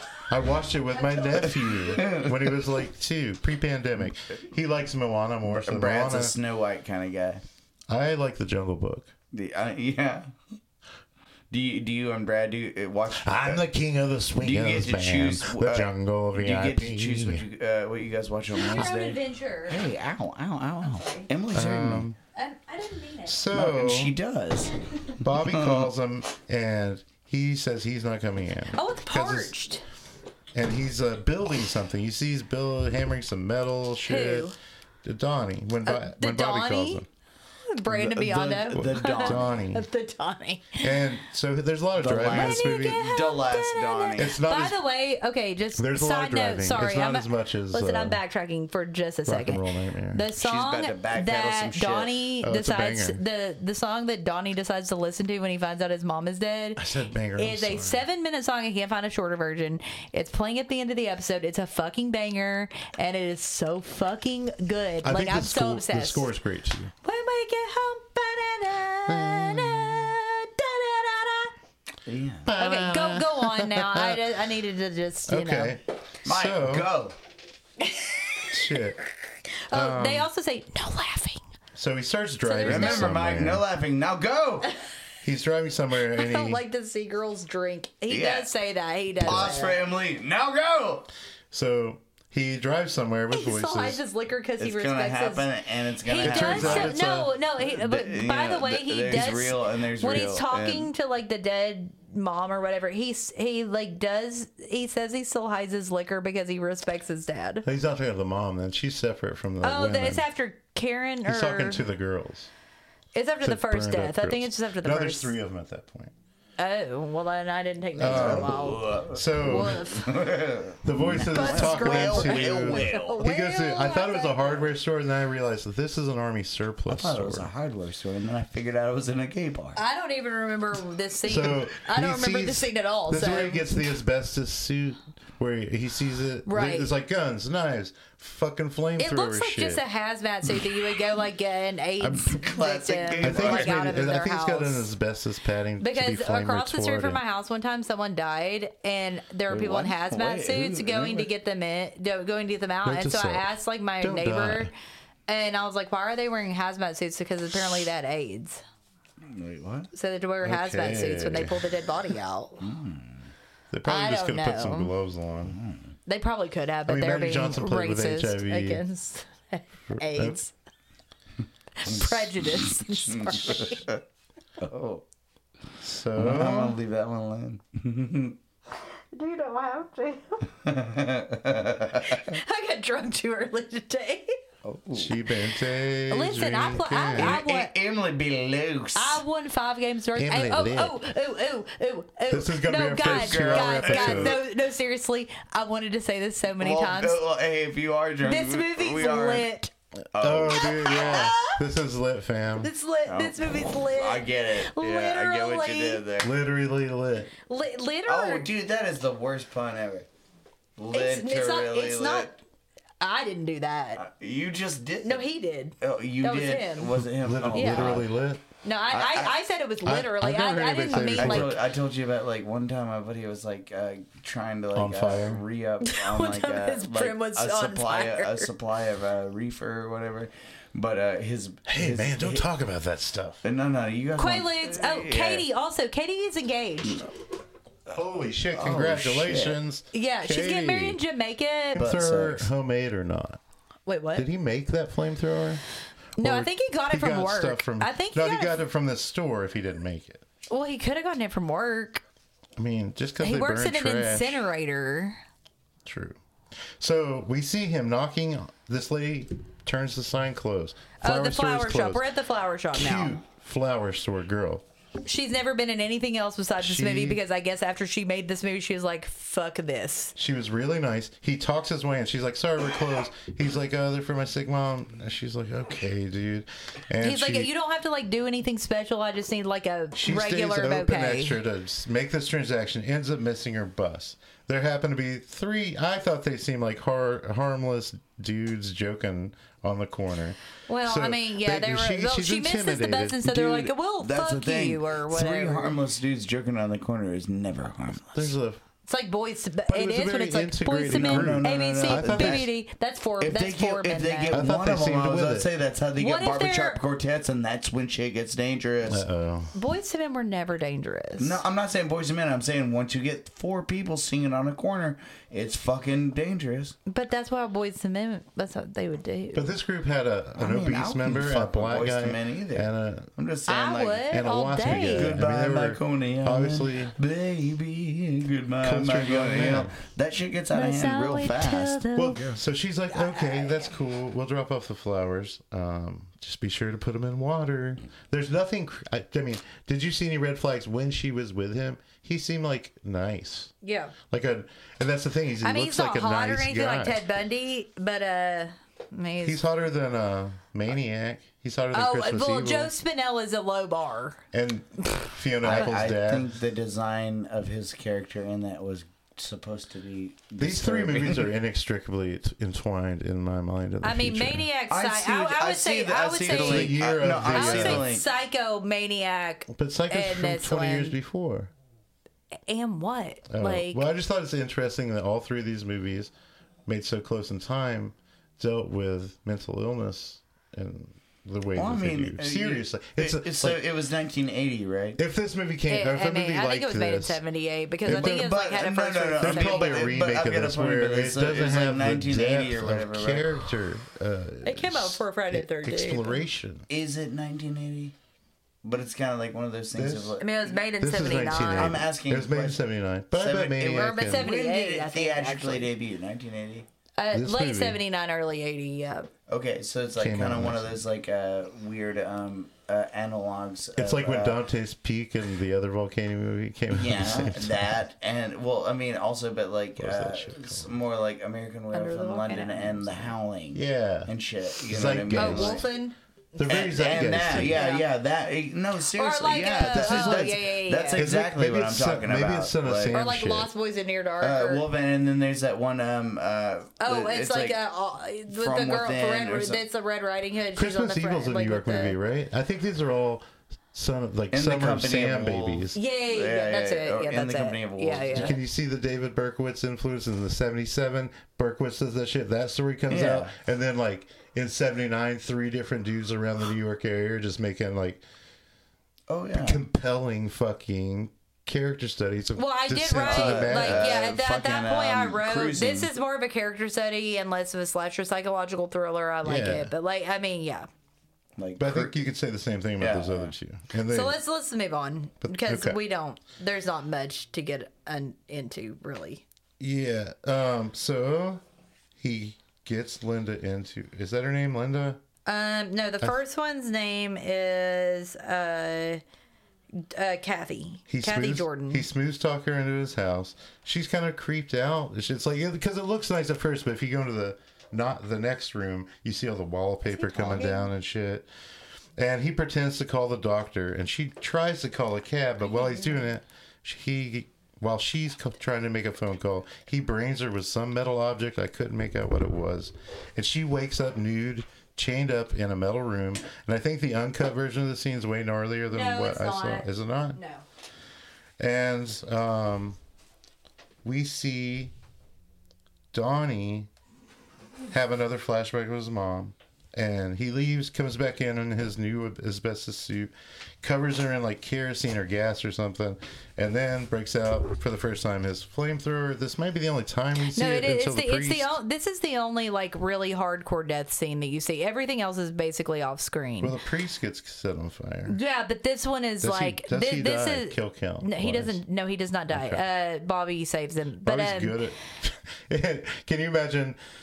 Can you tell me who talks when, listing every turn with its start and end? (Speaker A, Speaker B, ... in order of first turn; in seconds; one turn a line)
Speaker A: 0.3-6.3
Speaker B: 0.9-2.1
Speaker C: 1.9-2.6
Speaker C: 5.5-7.4
Speaker A: 7.9-9.1
Speaker C: 9.3-10.3
Speaker C: 11.5-13.6
Speaker A: 13.2-17.4
Speaker C: 14.4-22.1
Speaker B: 18.6-19.9
Speaker B: 20.8-21.3
Speaker A: 21.5-22.2
Speaker B: 22.4-23.4
Speaker A: 23.3-24.2
Speaker C: 23.5-25.9
Speaker A: 25.2-29.5
Speaker B: 28.7-29.8
Speaker A: 30.5-34.5
Speaker B: 34.1-34.5
Speaker A: 35.0-37.1
Speaker B: 35.9-37.0
Speaker B: 37.7-40.9
Speaker C: 37.9-39.5
Speaker A: 38.7-39.9
Speaker A: 40.8-43.1
Speaker C: 42.0-44.4
Speaker B: 42.3-56.8
Speaker A: 44.2-44.8
Speaker A: 45.8-48.2
Speaker A: 49.3-50.3
Speaker C: 50.4-52.2
Speaker A: 52.4-53.2
Speaker A: 56.8-58.0
Speaker B: 57.4-66.3
Speaker A: 65.0-66.9
Speaker B: 67.0-71.5
Speaker A: 69.1-70.1
Speaker C: 72.1-72.5
Speaker A: 72.5-74.3
Speaker B: 72.6-75.8
Speaker A: 75.3-76.9
Speaker C: 76.2-77.2
Speaker A: 78.5-79.0
Speaker B: 79.7-81.4
Speaker A: 79.7-80.3
Speaker A: 81.8-83.7
Speaker B: 82.4-83.2
Speaker C: 82.7-84.7
Speaker A: 85.2-86.6
Speaker B: 86.1-89.8
Speaker C: 88.1-88.5
Speaker C: 89.2-91.1
Speaker A: 89.2-89.6
Speaker A: 91.5-94.0
Speaker B: 93.3-95.5
Speaker C: 94.6-97.0
Speaker B: 96.0-107.7
Speaker A: 96.2-97.3
Speaker C: 97.6-100.9
Speaker A: 107.6-110.2
Speaker B: 109.6-111.8
Speaker A: 111.2-112.5
Speaker B: 113.2-115.3
Speaker A: 113.4-116.1
Speaker B: 116.6-120.3
Speaker A: 118.0-119.9
Speaker C: 118.0-123.2
Speaker A: 120.8-127.5
Speaker B: 121.3-124.7
Speaker C: 126.9-129.8
Speaker B: 129.8-133.8
Speaker A: 131.2-139.8
Speaker B: 136.5-136.9
Speaker B: 139.0-144.9
Speaker C: 142.0-143.9
Speaker A: 143.2-147.2
Speaker B: 145.8-154.7
Speaker C: 149.5-151.3
Speaker A: 152.8-154.7
Speaker B: 155.3-158.6
Speaker C: 159.2-159.9
Speaker B: 159.9-162.7
Speaker A: 160.4-161.8
Speaker C: 162.6-163.3
Speaker A: 163.7-165.6
Speaker B: 163.9-164.9
Speaker C: 165.4-165.9
Speaker B: 166.1-170.5
Speaker A: 166.9-168.8
Speaker A: 169.9-170.4
Speaker B: 171.8-173.9
Speaker C: 171.8-174.0
Speaker C: 174.6-175.0
Speaker A: 175.8-176.8
Speaker C: 176.2-178.4
Speaker B: 179.1-180.5
Speaker C: 180.6-182.4
Speaker B: 182.1-184.4
Speaker C: 184.6-185.2
Speaker A: 184.9-187.4
Speaker B: 186.1-187.7
Speaker C: 187.2-189.2
Speaker B: 188.9-197.2
Speaker A: 190.2-191.0
Speaker A: 192.3-194.4
Speaker C: 193.0-194.4
Speaker C: 196.6-199.5
Speaker B: 198.2-199.7
Speaker C: 200.1-201.3
Speaker A: 200.2-202.7
Speaker B: 200.5-201.6
Speaker B: 202.6-206.0
Speaker C: 203.1-206.3
Speaker A: 206.2-207.3
Speaker B: 207.5-208.5
Speaker C: 208.1-210.1
Speaker C: 210.8-212.4
Speaker B: 210.9-212.4
Speaker B: 213.0-214.0
Speaker C: 214.0-215.3
Speaker B: 215.0-217.0
Speaker C: 215.8-218.1
Speaker A: 217.1-218.4
Speaker B: 217.5-218.0
Speaker B: 218.6-221.6
Speaker C: 218.9-219.3
Speaker A: 219.8-221.6
Speaker C: 220.9-232.5
Speaker A: 224.7-225.4
Speaker B: 225.8-228.5
Speaker A: 231.7-233.4
Speaker C: 233.4-235.5
Speaker B: 234.2-237.1
Speaker A: 237.9-241.0
Speaker C: 238.5-239.6
Speaker B: 239.9-241.9
Speaker A: 241.8-243.4
Speaker C: 241.8-242.5
Speaker B: 243.9-244.3
Speaker A: 244.2-245.6
Speaker B: 246.2-248.6
Speaker A: 246.2-250.2
Speaker B: 250.5-252.0
Speaker A: 252.6-254.4
Speaker B: 253.2-255.2
Speaker A: 255.8-256.2
Speaker A: 256.8-262.1
Speaker B: 261.0-263.2
Speaker A: 262.7-264.6
Speaker B: 265.1-270.1
Speaker A: 266.6-267.2
Speaker A: 270.2-277.5
Speaker B: 277.0-281.4
Speaker A: 279.9-293.7
Speaker B: 290.7-295.8
Speaker C: 293.4-298.4
Speaker A: 298.1-298.6
Speaker B: 298.9-304.4
Speaker A: 299.7-302.5
Speaker C: 300.9-302.5
Speaker C: 303.2-309.1
Speaker A: 304.3-305.5
Speaker B: 306.0-306.8
Speaker A: 308.9-309.6
Speaker B: 309.5-311.4
Speaker C: 311.2-316.8
Speaker B: 316.9-319.5
Speaker A: 319.3-323.1
Speaker C: 320.4-324.1
Speaker B: 323.5-325.2
Speaker A: 324.1-326.9
Speaker C: 324.6-332.3
Speaker A: 328.6-329.7
Speaker B: 330.5-332.2
Speaker A: 331.9-343.5
Speaker B: 332.9-333.7
Speaker B: 343.6-343.9
Speaker A: 344.1-347.0
Speaker B: 345.4-349.4
Speaker A: 349.2-352.7
Speaker B: 351.7-354.2
Speaker A: 354.3-356.3
Speaker C: 355.4-361.3
Speaker A: 360.4-364.5
Speaker B: 363.8-371.0
Speaker C: 364.7-368.1
Speaker A: 366.3-367.9
Speaker A: 369.5-371.5
Speaker B: 372.5-373.8
Speaker A: 373.3-376.1
Speaker A: 376.7-383.6
Speaker C: 381.6-385.0
Speaker A: 385.0-387.2
Speaker B: 385.7-389.8
Speaker A: 387.9-388.3
Speaker C: 387.9-393.4
Speaker A: 389.2-396.7
Speaker B: 394.4-396.2
Speaker C: 396.7-397.9
Speaker C: 398.6-400.4
Speaker A: 399.7-400.2
Speaker B: 400.2-401.8
Speaker A: 400.8-404.3
Speaker C: 401.3-402.6
Speaker C: 403.1-406.7
Speaker B: 403.7-405.7
Speaker B: 407.0-409.1
Speaker A: 407.1-407.8
Speaker C: 409.3-414.4
Speaker A: 410.0-410.8
Speaker A: 413.8-417.8
Speaker C: 416.7-425.6
Speaker A: 419.8-420.7
Speaker B: 421.7-422.9
Speaker A: 423.5-424.1
Speaker A: 424.6-425.6
Speaker B: 425.1-426.0
Speaker A: 426.4-427.7
Speaker C: 426.4-433.0
Speaker B: 427.3-427.9
Speaker B: 428.9-431.1
Speaker A: 429.6-430.4
Speaker A: 430.9-433.5
Speaker B: 432.9-434.6
Speaker C: 434.2-437.6
Speaker B: 436.8-442.0
Speaker C: 438.3-439.6
Speaker A: 440.5-445.8
Speaker C: 444.3-448.4
Speaker B: 445.7-448.4
Speaker A: 448.1-458.0
Speaker C: 452.9-453.3
Speaker C: 459.1-459.6
Speaker A: 459.4-463.9
Speaker B: 462.4-470.7
Speaker C: 463.0-465.9
Speaker A: 469.2-469.7
Speaker C: 471.4-471.9
Speaker A: 471.6-474.2
Speaker C: 472.8-473.3
Speaker B: 473.9-479.2
Speaker A: 475.2-475.8
Speaker A: 479.6-481.4
Speaker A: 482.0-485.0
Speaker B: 485.3-489.0
Speaker B: 489.8-491.9
Speaker A: 490.9-501.3
Speaker B: 499.9-500.7
Speaker A: 502.0-520.2
Speaker B: 505.4-506.1
Speaker B: 518.7-520.4
Speaker A: 521.4-522.8
Speaker A: 523.8-524.7
Speaker A: 525.9-526.7
Speaker A: 527.7-541.6
Speaker B: 540.3-546.5
Speaker A: 546.4-548.2
Speaker B: 548.1-554.6
Speaker A: 549.2-551.6
Speaker A: 552.3-552.6
Speaker A: 554.0-556.8